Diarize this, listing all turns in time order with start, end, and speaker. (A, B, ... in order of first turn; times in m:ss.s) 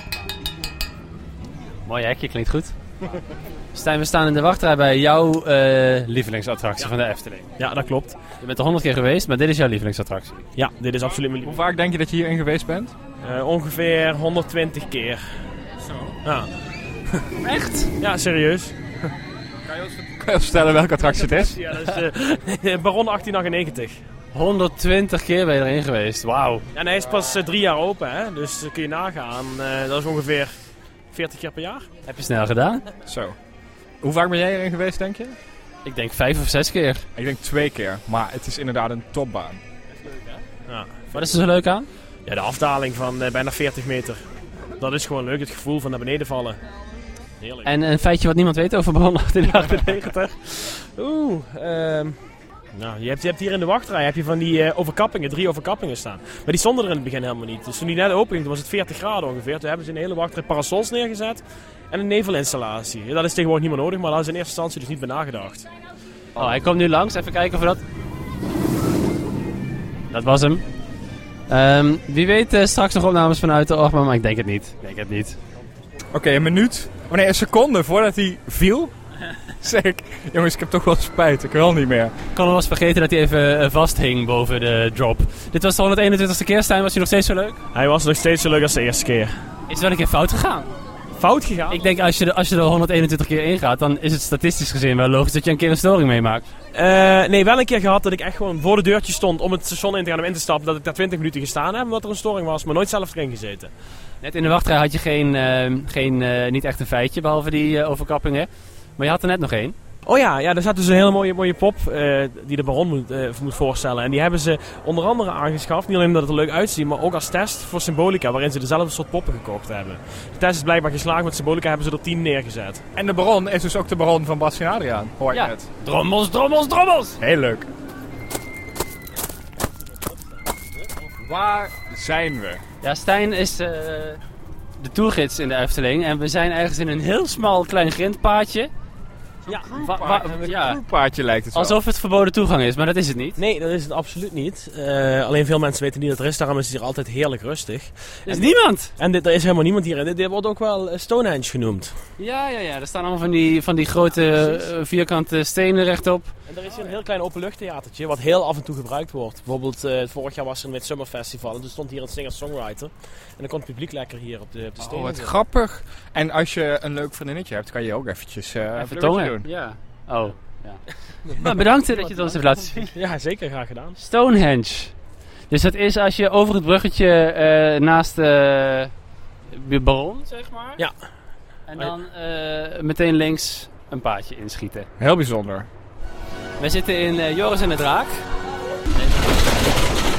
0:01.9-0:02.7 A
0:03.7-0:07.5 A
0:07.6-0:08.2 B
0:08.4-0:10.5 A
0:10.6-0:11.6 B
0:11.4-0:12.9 C
0:13.2-0:15.2 B
0:16.2-0:16.5 B
0:17.4-0:17.9 A
0:18.0-0:18.8 B
0:19.7-0:21.6 C
0:21.0-0:24.0 B
0:24.3-0:26.6 A
0:26.7-0:30.5 B
0:31.1-0:31.9 B
0:32.1-0:32.8 A
0:33.1-0:33.4 C
0:34.0-0:35.4 C
0:35.8-0:37.0 A
0:37.2-0:39.6 C
0:40.0-0:41.3 B
0:41.1-0:41.9 A
0:42.3-0:44.2 B
0:44.8-0:46.6 B
0:47.4-0:47.7 B
0:47.6-0:50.6 A
0:50.7-0:52.2 B
0:52.7-1:05.7 B
1:06.4-1:07.8 A
1:10.1-1:10.6 A
1:11.5-1:15.4 A
1:16.1-1:18.9 C
1:19.6-1:22.1 C
1:22.4-1:27.6 A
1:27.7-1:29.3 B
1:29.7-1:30.7 A
1:31.2-1:31.8 B
1:31.7-1:36.4 A
1:36.7-1:43.7 B
1:44.2-1:49.8 A
1:50.1-2:02.8 B
2:03.0-2:05.7 C
2:05.3-2:07.2 A
2:07.2-2:07.7 C
2:11.2-2:12.6 C
2:12.8-2:14.2 A
2:14.8-2:18.7 A
2:19.5-2:20.4 B
2:19.7-2:21.8 C
2:19.7-2:20.8 A
2:21.5-2:23.4 A
2:23.4-2:31.9 B
2:28.3-2:28.9 A
2:32.2-2:36.3 A
2:36.5-2:45.4 B
2:44.8-2:49.5 C
2:48.8-2:52.9 A
2:51.3-2:54.0 B
2:54.0-2:54.9 A
2:55.5-2:58.9 A
2:59.5-3:00.8 A
3:01.7-3:04.9 A
3:05.0-3:05.7 C
3:06.6-3:08.2 A